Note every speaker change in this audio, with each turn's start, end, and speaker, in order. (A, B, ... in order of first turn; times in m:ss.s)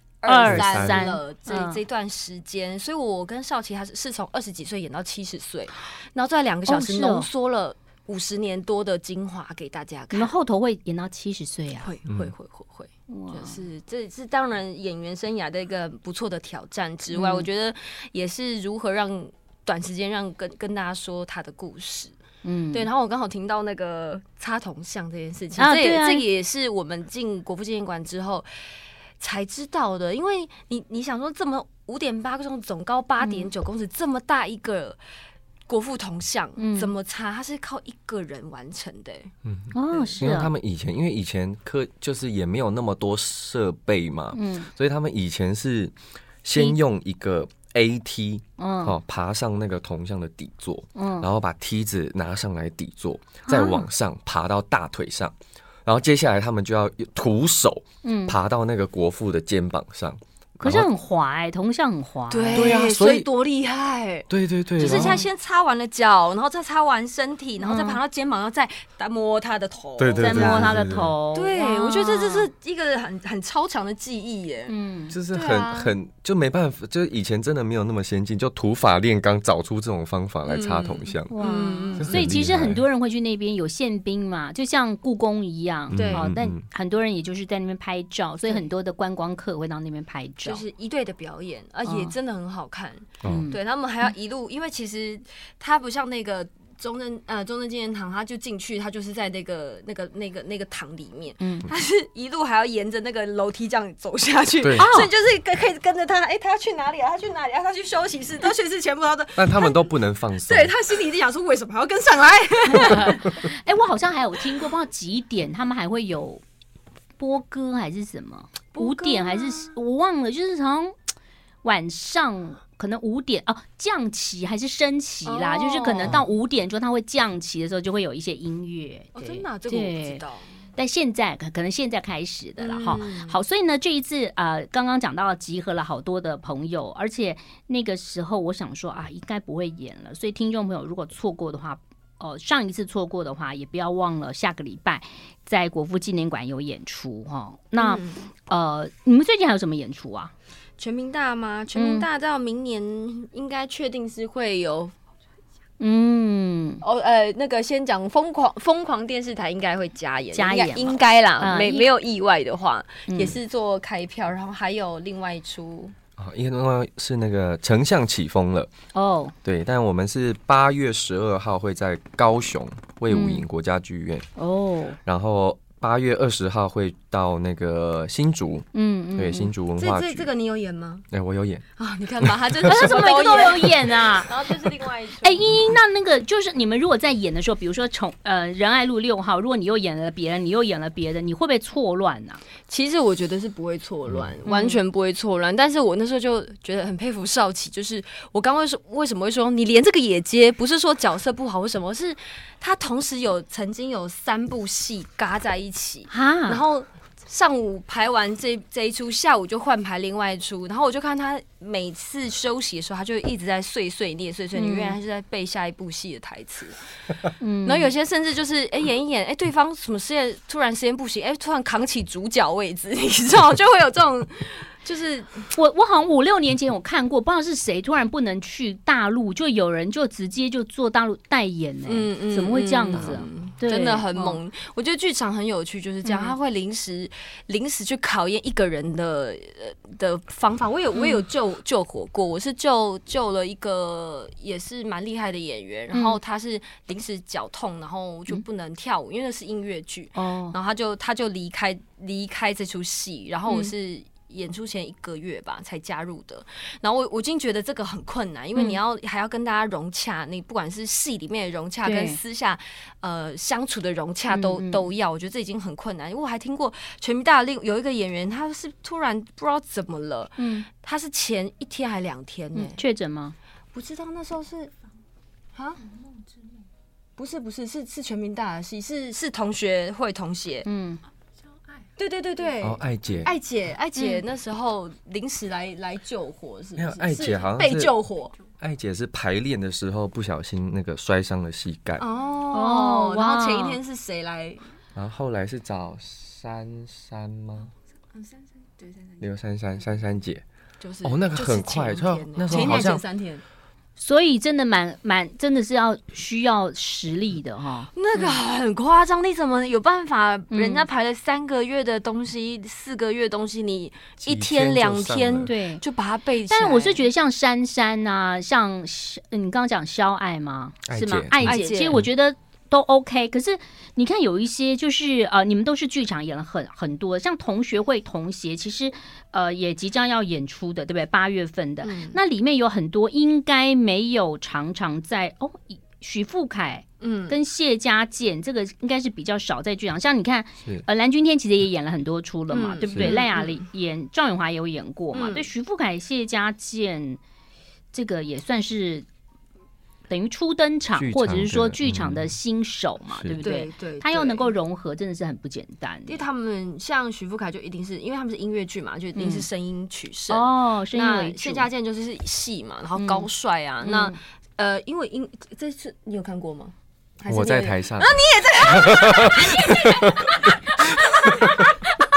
0:00.2-0:10.3 A
0:00.3-0:01.8 B
0:00.4-0:01.1 C
0:06.7-0:07.3 B
0:10.1-0:11.9 B
0:11.8-0:22.1 A
0:12.1-0:12.3 C
0:13.1-0:13.6 B
0:17.1-0:17.5 B
0:22.4-0:22.9 B
0:22.7-0:28.5 A
0:25.6-0:26.3 B
0:29.2-0:35.0 A
0:33.2-0:33.5 B
0:35.7-0:39.3 A
0:36.6-0:36.9 B
0:39.4-1:00.9 C
0:39.7-0:40.5 B
0:39.9-0:40.2 A
0:44.3-0:44.7 B
0:48.6-0:49.0 B
0:50.9-0:51.3 B
0:53.4-0:53.8 B
0:58.0-0:58.4 B
1:00.6-1:02.8 B
1:02.3-1:10.8 A
1:02.5-1:03.3 C
1:04.3-1:05.2 C
1:04.8-1:05.2 B
1:07.6-1:08.0 B
1:10.0-1:11.1 C
1:10.2-1:12.5 B
1:11.3-1:14.7 A
1:14.7-1:15.2 B
1:15.1-1:21.3 C
1:15.3-1:15.9 A
1:20.4-1:22.1 A
1:21.3-1:30.6 B
1:22.0-1:22.8 C
1:25.9-1:26.6 C
1:25.9-1:26.3 A
1:30.4-1:53.3 A
1:31.9-1:32.1 B
1:33.2-1:33.5 C
1:33.2-1:33.6 B
1:41.4-1:41.7 B
1:44.6-1:44.9 C
1:44.8-1:45.1 B
1:49.4-1:50.7 C
1:52.7-1:56.4 B
1:57.2-2:00.9 B
1:58.7-1:59.7 A
2:01.6-2:10.2 B
2:05.3-2:06.2 A
2:09.1-2:10.5 A
2:10.8-2:30.3 B
2:12.6-2:13.4 A
2:27.8-2:28.3 A
2:30.8-2:34.9 A
2:31.8-2:32.1 B
2:35.8-2:36.8 B
2:36.8-2:45.9 A
2:40.3-2:41.9 B
2:43.1-2:43.4 B
2:46.2-2:48.7 C
2:48.9-2:49.4 B
2:49.4-2:54.3 C
2:53.1-2:53.4 B
2:54.4-2:55.0 B
2:55.0-3:00.3 C
2:58.7-2:59.5 B
2:59.8-3:01.1 A
3:01.1-3:01.6 C
3:01.8-3:05.6 A
3:02.6-3:04.6 B
3:05.2-3:12.4 B
3:12.7-3:36.8 A
3:14.4-3:14.8 B
3:26.1-3:26.6 B
3:34.6-3:35.0 B
3:37.4-3:37.9 B
3:37.6-3:45.5 A
3:45.5-3:54.4 B
3:51.9-4:32.8 A
3:56.1-3:56.4 B
4:00.9-4:01.2 B
4:05.9-4:06.2 B
4:10.2-4:10.6 B
4:21.8-4:22.2 B
4:24.3-4:24.9 B
4:30.4-4:30.7 B
4:32.6-4:33.4 B
4:33.7-4:34.7 A
4:35.6-4:35.8 A
4:37.2-4:40.7 A
4:40.6-4:41.0 B
4:42.0-4:48.4 A
4:42.6-4:43.3 C
4:44.0-4:44.2 B
4:46.8-4:47.9 C
4:48.6-4:52.0 C
4:52.0-4:54.6 A
4:52.5-4:53.8 B
4:55.0-4:57.7 C
4:59.2-5:00.4 C
5:00.8-5:03.4 A
5:01.0-5:03.0 C
5:04.0-5:08.4 B
5:08.0-5:17.0 A
5:10.5-5:10.9 B
5:14.3-5:15.5 C
5:15.4-5:15.8 B
5:16.5-5:47.2 B
5:20.9-5:22.1 C
5:21.4-5:22.0 A
5:31.8-5:32.2 A
5:37.0-5:37.4 A
5:42.5-5:43.6 A
5:45.1-5:45.5 A
5:47.9-5:49.1 B
5:50.1-5:56.2 B
5:51.0-5:52.3 C
5:53.1-5:53.4 C
5:53.4-5:54.5 A
5:56.1-6:11.8 A
5:59.2-5:59.4 B
6:00.3-6:01.7 B
6:03.0-6:03.3 B
6:03.8-6:04.2 B
6:07.3-6:10.5 C
6:10.4-6:11.6 B